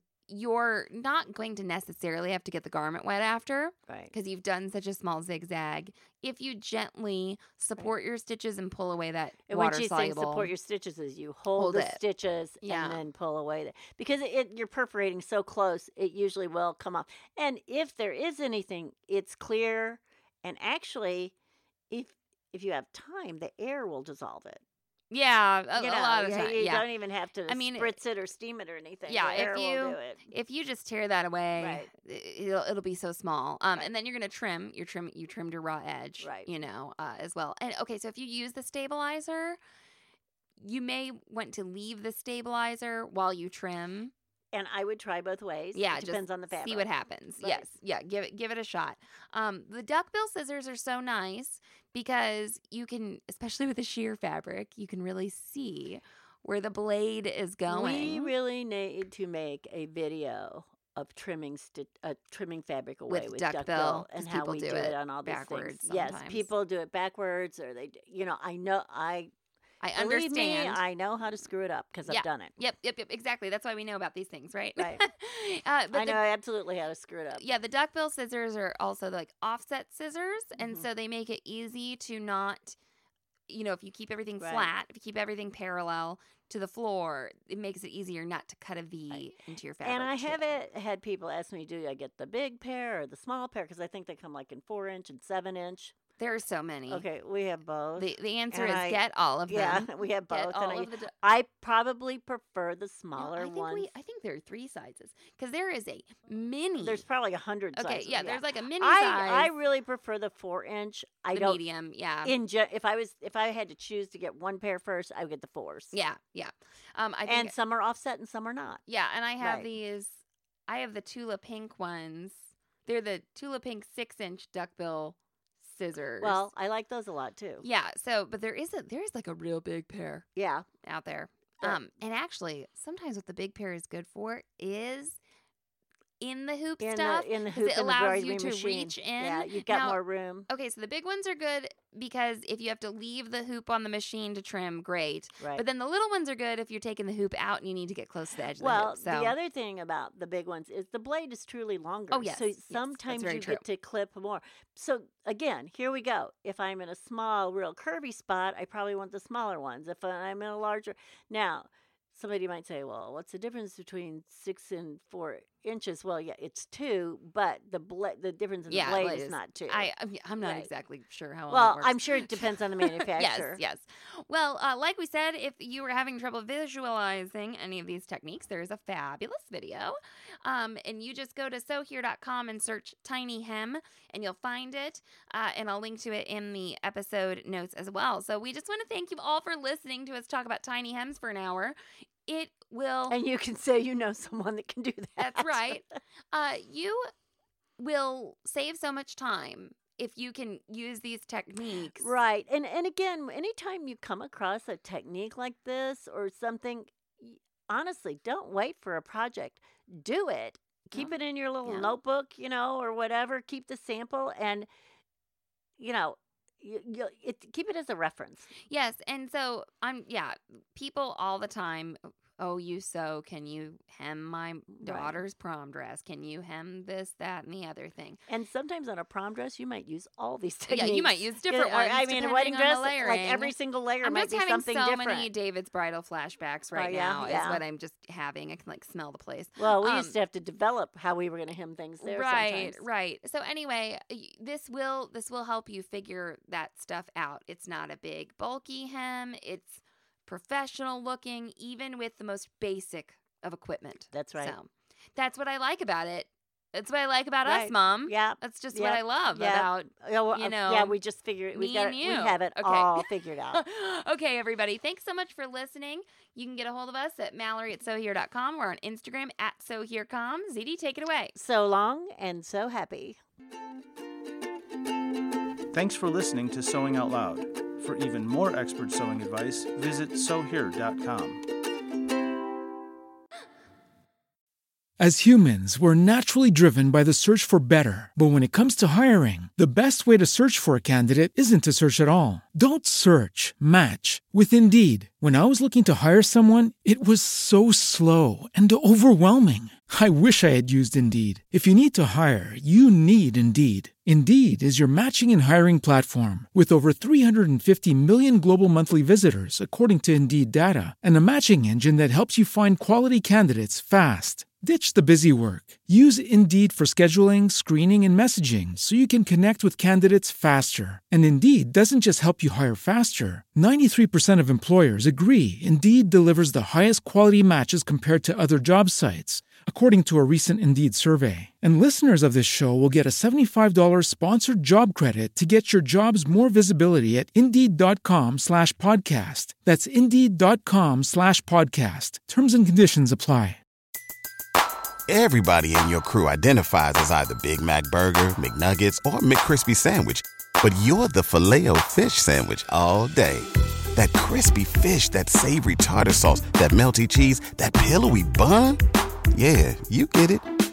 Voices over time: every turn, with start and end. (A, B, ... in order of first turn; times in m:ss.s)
0:00.3-0:10.5 A
0:03.9-0:04.1 B
0:09.5-0:21.3 B
0:11.5-0:12.0 A
0:12.6-0:13.0 A
0:21.9-0:24.6 B
0:25.1-0:26.9 A
0:25.8-0:30.2 B
0:27.5-0:28.0 A
0:29.1-0:39.6 A
0:31.6-0:31.9 B
0:36.2-0:36.5 B
0:40.6-0:44.1 A
0:44.5-0:46.9 B
0:45.7-0:58.3 A
0:47.4-0:47.7 B
0:57.7-1:09.3 B
1:03.1-1:06.5 A
1:09.8-1:10.8 A
1:10.0-1:12.5 B
1:12.1-1:16.2 A
1:14.8-1:15.0 B
1:15.9-1:17.5 B
1:17.4-1:22.8 A
1:20.6-1:20.8 B
1:23.5-1:30.6 A
1:24.4-1:24.7 B
1:29.8-1:36.0 B
1:36.2-1:37.0 A
1:36.9-1:43.9 B
1:38.0-1:41.1 A
1:43.2-1:47.0 A
1:46.8-1:51.6 B
1:47.8-1:49.5 A
1:51.3-1:52.3 A
1:52.2-1:55.9 B
1:55.9-1:57.5 A
1:57.2-1:58.8 B
1:58.9-2:06.4 A
1:59.4-1:59.7 B
2:06.2-2:07.6 B
2:07.6-2:10.3 A
2:10.4-2:10.7 B
2:10.8-2:15.2 A
2:16.2-2:29.3 A
2:16.8-2:20.5 B
2:25.4-2:25.6 B
2:28.6-2:50.7 B
2:32.1-2:33.6 A
2:48.7-3:13.2 A
2:51.5-2:53.6 B
3:13.1-3:15.8 B
3:15.2-3:17.1 A
3:17.8-3:22.1 A
3:22.0-3:34.7 B
3:31.6-3:31.9 A
3:35.8-3:38.5 B
3:38.7-3:48.2 A
3:44.8-3:45.2 B
3:48.3-3:55.3 B
3:50.7-4:00.2 A
3:56.7-3:57.6 B
3:59.6-4:02.8 B
4:02.0-4:21.0 A
4:14.1-4:14.6 B
4:17.4-4:23.6 B
4:21.5-4:31.4 A
4:31.4-4:33.2 B
4:35.7-4:41.4 C
4:45.0-5:43.6 D
5:45.1-5:58.8 E
5:59.3-6:00.4 E